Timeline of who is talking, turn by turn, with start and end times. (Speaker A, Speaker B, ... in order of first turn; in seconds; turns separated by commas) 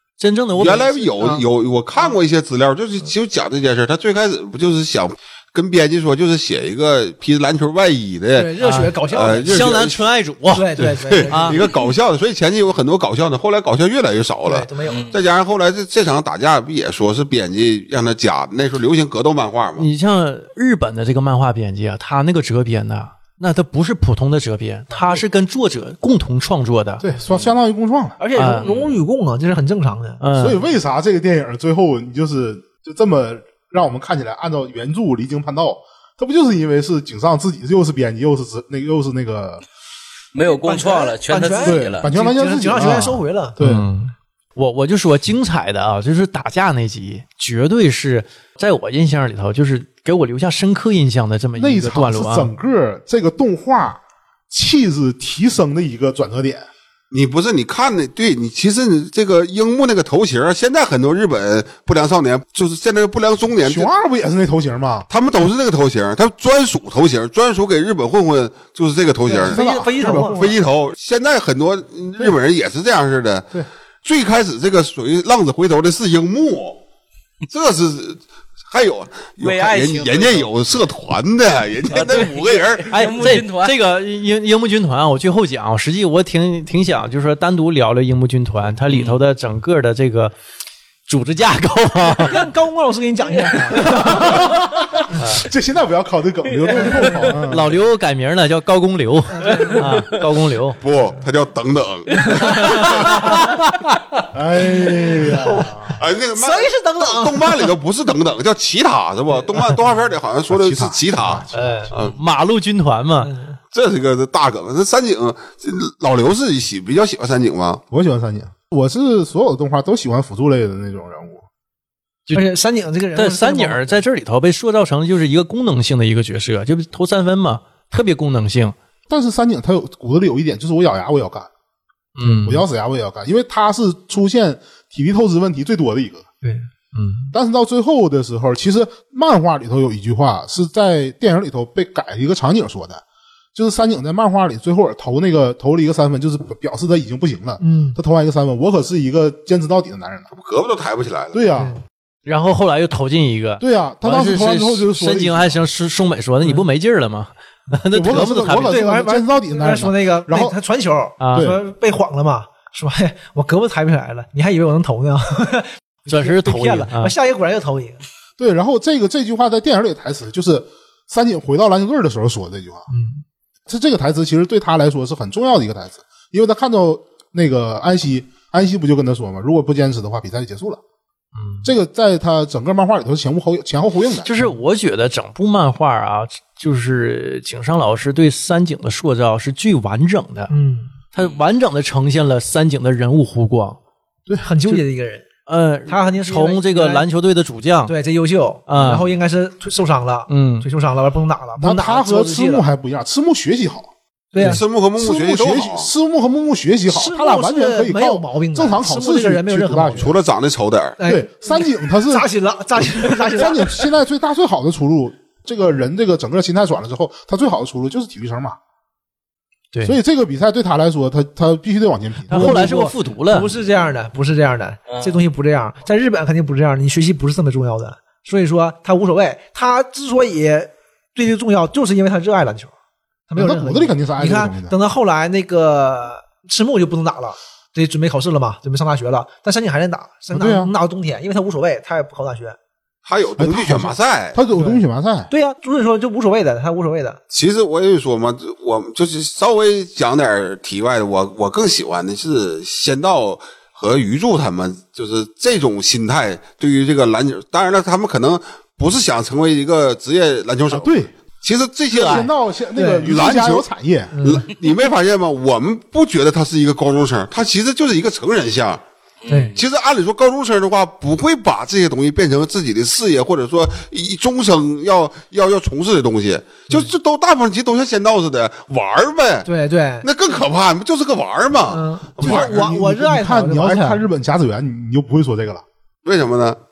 Speaker A: 0.2-1.1, Speaker B: 0.6-10.1, Speaker C: 8.3-9.8, Speaker A: 8.6-11.6, Speaker C: 10.5-11.7, Speaker B: 10.8-19.9, Speaker C: 14.4-15.1, Speaker D: 14.8-15.2, Speaker A: 19.8-27.0, Speaker C: 24.9-25.2, Speaker E: 27.0-28.2, Speaker C: 28.2-30.3, Speaker A: 28.3-28.7, Speaker D: 28.6-28.9, Speaker A: 30.2-30.6, Speaker E: 30.4-39.6, Speaker D: 40.3-42.1, Speaker C: 40.5-43.5, Speaker E: 41.6-43.9, Speaker A: 42.8-43.1, Speaker A: 43.6-52.5, Speaker E: 51.5-56.7, Speaker B: 57.1-63.9, Speaker E: 63.6-65.1, Speaker B: 65.1-76.8, Speaker C: 69.3-70.4, Speaker E: 69.3-70.6, Speaker B: 77.5-83.0, Speaker D: 79.4-80.5, Speaker D: 81.9-83.8, Speaker A: 82.9-90.3, Speaker D: 88.9-89.2, Speaker A: 91.1-92.5, Speaker C: 92.1-94.5, Speaker A: 93.8-94.4, Speaker E: 94.0-97.7, Speaker C: 96.8-97.2, Speaker A: 97.4-100.8, Speaker C: 99.3-99.9, Speaker B: 100.8-103.2, Speaker C: 102.2-103.5, Speaker A: 102.8-103.9, Speaker E: 104.3-105.7, Speaker C: 104.8-107.7, Speaker B: 106.0-112.1, Speaker E: 110.5-111.9, Speaker A: 111.5-113.3, Speaker C: 113.2-113.6, Speaker B: 113.7-117.8, Speaker E: 117.9-121.4, Speaker C: 122.3-124.0, Speaker A: 123.1-128.7, Speaker E: 129.1-131.5, Speaker A: 132.2-132.6, Speaker E: 132.2-136.3, Speaker A: 136.9-137.3, Speaker E: 137.3-143.0, Speaker E: 143.5-150.3, Speaker C: 147.6-148.0, Speaker B: 150.3-151.4, Speaker E: 151.3-151.7, Speaker A: 152.2-158.8, Speaker E: 153.6-155.6, Speaker E: 157.9-160.6, Speaker C: 158.7-168.0, Speaker A: 161.2-161.5, Speaker A: 166.1-167.1, Speaker E: 168.4-172.9, Speaker C: 172.9-173.2, Speaker E: 173.7-180.8, Speaker A: 181.3-181.7, Speaker E: 181.6-184.3, Speaker A: 184.2-190.5, Speaker C: 190.5-190.9, Speaker A: 191.1-193.8, Speaker C: 194.4-195.2, Speaker A: 195.4-197.9, Speaker C: 195.9-197.1, Speaker C: 197.8-202.6, Speaker A: 198.7-199.1, Speaker A: 200.3-200.7, Speaker E: 201.6-210.1, Speaker C: 204.3-204.6, Speaker B: 204.4-205.9, Speaker C: 206.9-210.1, Speaker B: 209.9-211.0, Speaker C: 211.0-213.8, Speaker E: 211.0-212.3, Speaker E: 213.1-218.6, Speaker E: 219.8-222.8, Speaker A: 222.3-223.5, Speaker C: 222.3-232.7, Speaker D: 224.9-225.2, Speaker C: 233.3-242.6, Speaker E: 233.3-234.7, Speaker E: 240.3-240.7, Speaker B: 243.1-244.4, Speaker E: 243.4-245.3, Speaker C: 244.6-247.2, Speaker B: 247.3-262.3, Speaker E: 260.7-261.1, Speaker A: 261.9-262.3, Speaker E: 261.9-264.1, Speaker C: 262.7-263.1, Speaker B: 263.0-263.7, Speaker C: 264.1-264.5, Speaker B: 264.2-268.8, Speaker D: 269.2-269.6, Speaker C: 269.3-269.6, Speaker B: 269.5-279.5, Speaker C: 279.4-280.1, Speaker B: 280.0-282.7, Speaker C: 281.7-284.0, Speaker E: 282.2-285.6, Speaker B: 286.0-286.6